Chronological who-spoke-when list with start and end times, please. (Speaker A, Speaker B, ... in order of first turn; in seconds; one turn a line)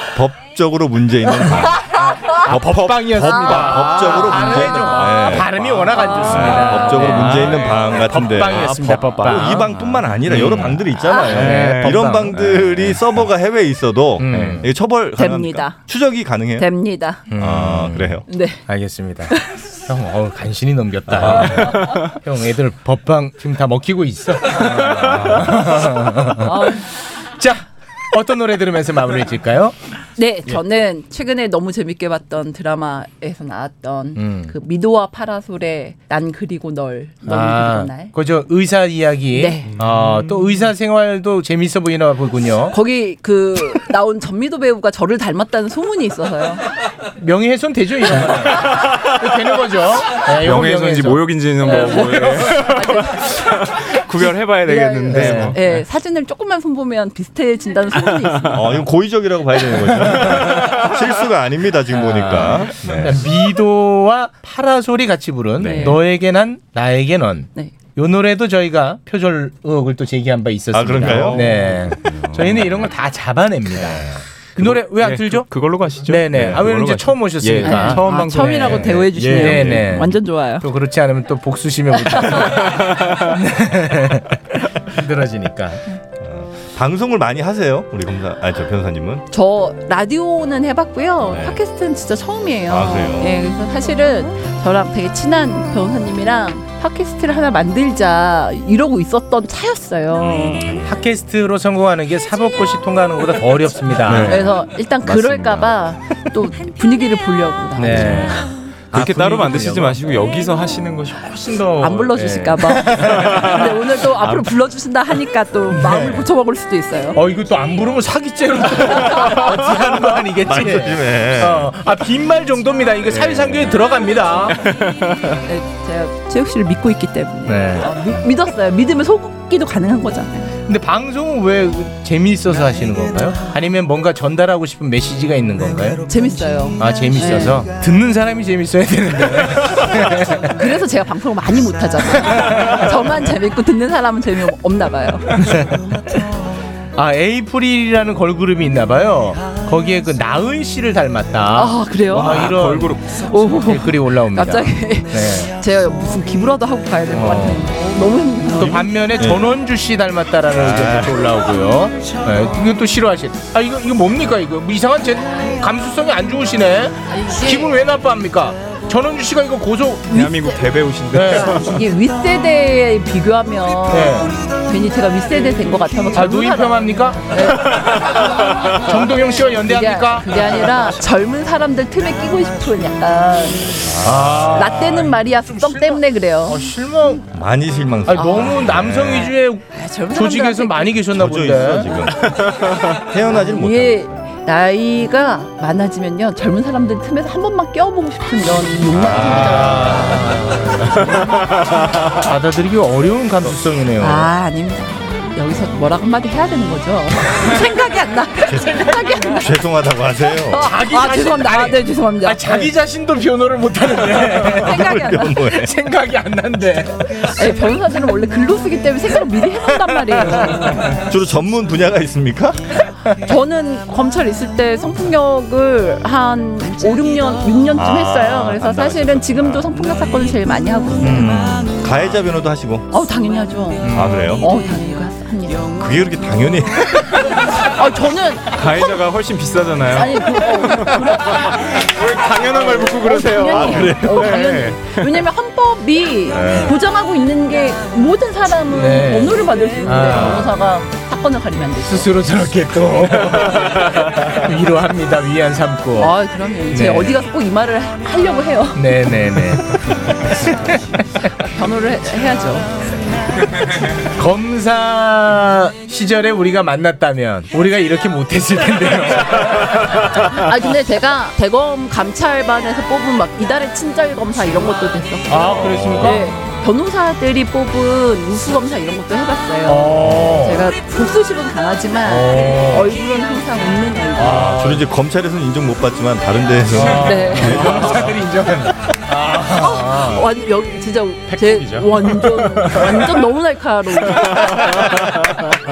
Speaker A: 0.1-1.8
Speaker B: 1.4-2.4
Speaker C: 1.9-13.0
Speaker A: 2.5-16.7
Speaker D: 2.5-3.8
Speaker B: 3.2-3.5
Speaker B: 4.7-5.4
Speaker D: 5.5-5.8
Speaker B: 5.9-7.3
Speaker D: 6.3-13.0
Speaker B: 11.0-11.4
Speaker C: 14.2-14.7
Speaker D: 14.3-14.6
Speaker B: 15.2-15.9
Speaker B: 16.6-17.3
Speaker C: 17.3-29.8
Speaker A: 17.3-18.2
Speaker B: 18.3-18.6
Speaker D: 21.1-22.1
Speaker B: 26.4-26.9
Speaker B: 30.2-38.1
Speaker C: 34.2-34.5
Speaker C: 37.3-42.8
Speaker B: 39.3-39.7
Speaker D: 39.7-40.7
Speaker B: 42.7-46.6
Speaker C: 47.2-52.4
Speaker D: 48.6-49.2
Speaker D: 50.3-55.8
Speaker B: 51.6-58.9
Speaker C: 55.1-55.6
Speaker A: 58.5-63.3
Speaker C: 59.9-60.8
Speaker C: 61.9-75.5
Speaker D: 65.6-66.0
Speaker B: 65.6-66.0
Speaker A: 70.7-71.5
Speaker D: 71.0-72.9
Speaker D: 74.6-79.9
Speaker C: 76.0-85.8
Speaker B: 77.6-80.7
Speaker B: 81.9-82.6
Speaker D: 82.6-83.3
Speaker A: 86.2-89.2
Speaker B: 89.3-100.8
Speaker A: 91.3-91.6
Speaker A: 92.7-93.3
Speaker A: 100.2-101.0
Speaker C: 100.8-104.5
Speaker D: 104.1-104.4
Speaker B: 104.2-108.5
Speaker D: 105.0-105.8
Speaker C: 107.8-110.0
Speaker D: 108.0-108.3
Speaker D: 108.9-111.4
Speaker C: 111.2-113.5
Speaker B: 111.8-117.2
Speaker D: 113.0-114.5
Speaker C: 115.7-116.3
Speaker C: 117.1-124.6
Speaker B: 118.7-119.7
Speaker A: 120.4-121.7
Speaker D: 123.1-123.8
Speaker D: 124.5-125.4
Speaker B: 125.5-130.6
Speaker C: 127.5-128.2
Speaker C: 130.7-136.0
Speaker B: 136.1-137.7
Speaker C: 136.8-140.6
Speaker B: 140.5-145.5
Speaker C: 142.2-142.8
Speaker C: 145.3-145.8
Speaker C: 147.0-155.5
Speaker B: 151.5-152.6
Speaker D: 152.1-153.4
Speaker B: 153.1-158.8
Speaker C: 157.1-157.7
Speaker C: 158.5-170.1
Speaker A: 159.1-159.5
Speaker A: 160.5-161.3
Speaker B: 167.1-167.9
Speaker B: 170.1-178.3
Speaker D: 170.1-171.8
Speaker C: 171.1-171.6
Speaker C: 173.9-174.4
Speaker C: 176.1-177.9
Speaker D: 177.7-178.8
Speaker C: 178.7-180.8
Speaker B: 179.4-183.9
Speaker A: 183.8-184.7
Speaker C: 184.0-187.2
Speaker B: 184.5-186.7
Speaker A: 187.3-189.3
Speaker C: 188.1-192.0
Speaker B: 188.1-191.1
Speaker A: 191.2-192.2
Speaker D: 192.2-193.0
Speaker A: 192.9-194.2
Speaker B: 193.3-200.4
Speaker A: 198.9-200.3
Speaker C: 199.0-201.3
Speaker D: 201.3-201.8
Speaker C: 202.2-204.3
Speaker B: 204.0-209.6
Speaker A: 209.3-210.7
Speaker B: 210.5-212.7
Speaker C: 210.6-217.3
Speaker A: 214.4-215.7
Speaker B: 214.6-215.5
Speaker B: 217.2-220.9
Speaker C: 219.7-221.0
Speaker A: 221.0-222.6
Speaker B: 223.2-231.4
Speaker A: 227.8-229.7
Speaker A: 231.0-232.9
Speaker C: 231.0-231.3
Speaker B: 232.9-235.8
Speaker C: 233.8-234.3
Speaker A: 233.9-234.4
Speaker A: 235.8-237.2
Speaker B: 237.7-238.9
Speaker D: 238.5-245.0
Speaker B: 239.9-241.8
Speaker B: 242.5-252.3
Speaker A: 243.4-244.2
Speaker A: 246.4-246.7
Speaker C: 248.7-250.5
Speaker C: 251.8-256.1
Speaker D: 253.6-254.1
Speaker B: 256.0-259.1
Speaker C: 256.7-257.2
Speaker C: 258.8-261.2
Speaker B: 261.4-262.7
Speaker C: 264.1-269.9
Speaker B: 270.1-284.6
Speaker C: 275.3-276.2
Speaker A: 275.6-276.2
Speaker C: 279.7-280.7
Speaker C: 282.1-282.9
Speaker C: 284.2-284.9
Speaker A: 284.3-288.2
Speaker C: 286.7-290.3
Speaker B: 287.0-287.7
Speaker B: 289.4-295.1
Speaker D: 291.3-291.9
Speaker C: 292.0-293.1
Speaker D: 294.1-295.4
Speaker C: 294.6-295.1